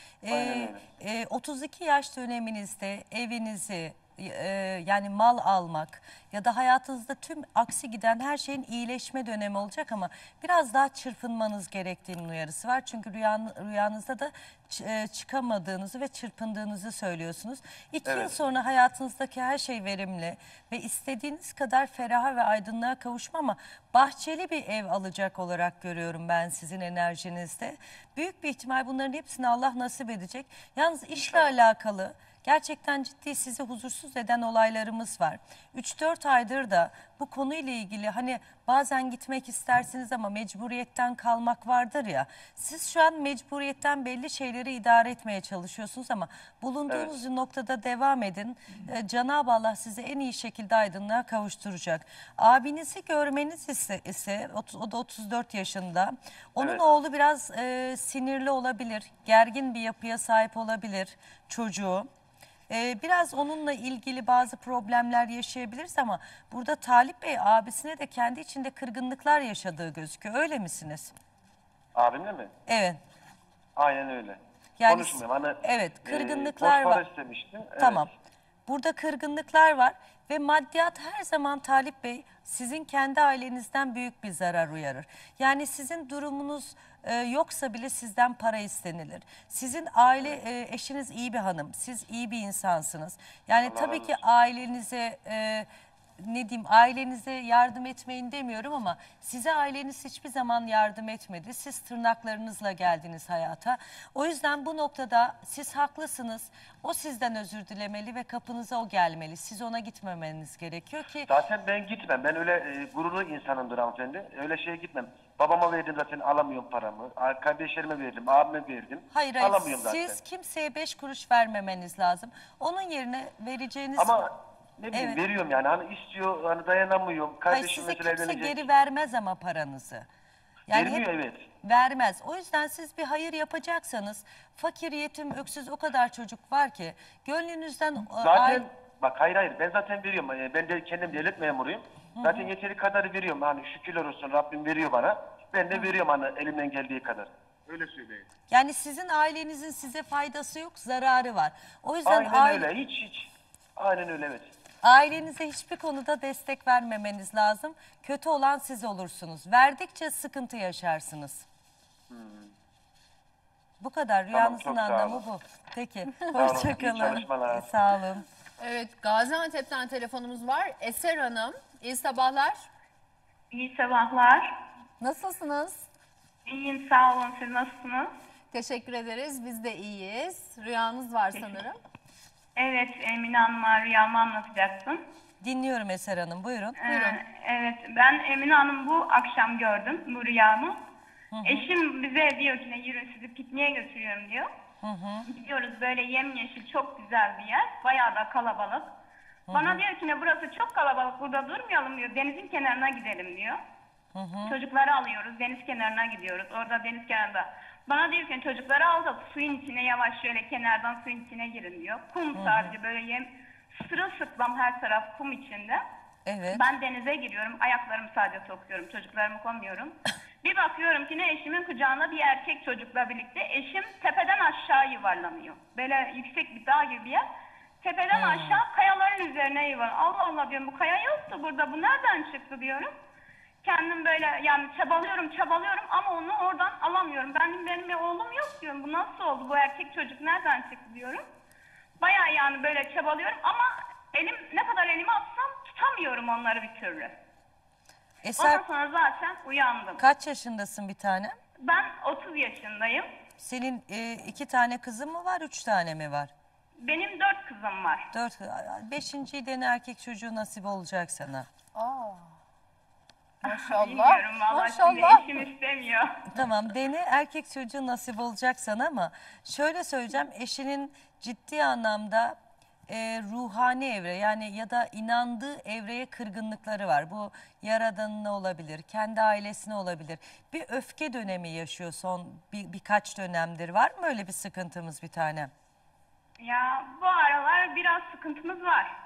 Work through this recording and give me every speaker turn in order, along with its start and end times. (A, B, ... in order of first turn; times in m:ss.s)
0:00.2-1:02.1 A
0:00.3-0:00.8 B
0:18.0-0:18.4 B
0:31.2-0:31.5 B
0:46.9-0:47.1 B
1:02.7-1:11.1 A
1:11.9-1:12.5 B
1:12.7-1:13.0 A
1:13.8-1:18.0 B
1:14.8-1:17.0 A
1:17.8-1:18.1 A
1:18.7-1:51.3 A
1:33.6-1:34.1 B
1:51.3-2:00.2 B
1:59.1-2:04.2 A
2:04.0-2:08.6 B
2:04.9-2:05.2 A
2:07.5-2:10.1 A
2:10.7-2:11.0 A
2:10.7-2:11.4 B
2:11.6-2:18.6 A
2:18.2-2:28.3 B
2:22.2-2:22.4 A
2:28.5-2:32.7 A
2:32.0-2:34.5 B
2:34.8-2:41.4 A
2:42.1-2:42.5 B
2:43.8-2:48.2 A
2:44.3-2:45.2 B
2:46.3-2:47.7 B
2:48.6-2:52.7 C
2:53.5-2:54.6 D
2:55.0-2:55.9 C
2:56.4-2:58.1 D
2:58.5-3:01.8 C
3:02.6-3:05.0 D
3:05.4-3:07.2 A
3:06.8-3:10.8 D
3:11.3-3:11.7 A
3:11.4-3:14.5 D
3:14.8-3:15.3 A
3:15.2-3:18.9 D
3:19.5-3:19.8 A
3:19.5-3:23.6 D
3:24.1-3:24.6 A
3:24.4-3:35.8 D
3:32.3-3:32.7 A
3:36.2-3:36.6 A
3:36.5-3:47.2 D
3:47.8-3:52.9 D
3:48.1-3:48.6 A
3:53.6-4:01.2 D
4:02.0-4:07.2 D
4:08.2-4:08.6 A
4:08.4-4:10.0 D
4:10.0-4:11.4 A
4:11.6-4:13.0 D
4:13.4-4:16.3 A
4:16.8-4:18.1 D
4:18.1-4:21.5 A
4:21.7-4:22.4 C
4:23.4-4:25.3 C
4:23.4-4:26.2 D
4:26.3-4:32.4 A
4:32.9-4:45.5 A
4:46.4-4:48.9 D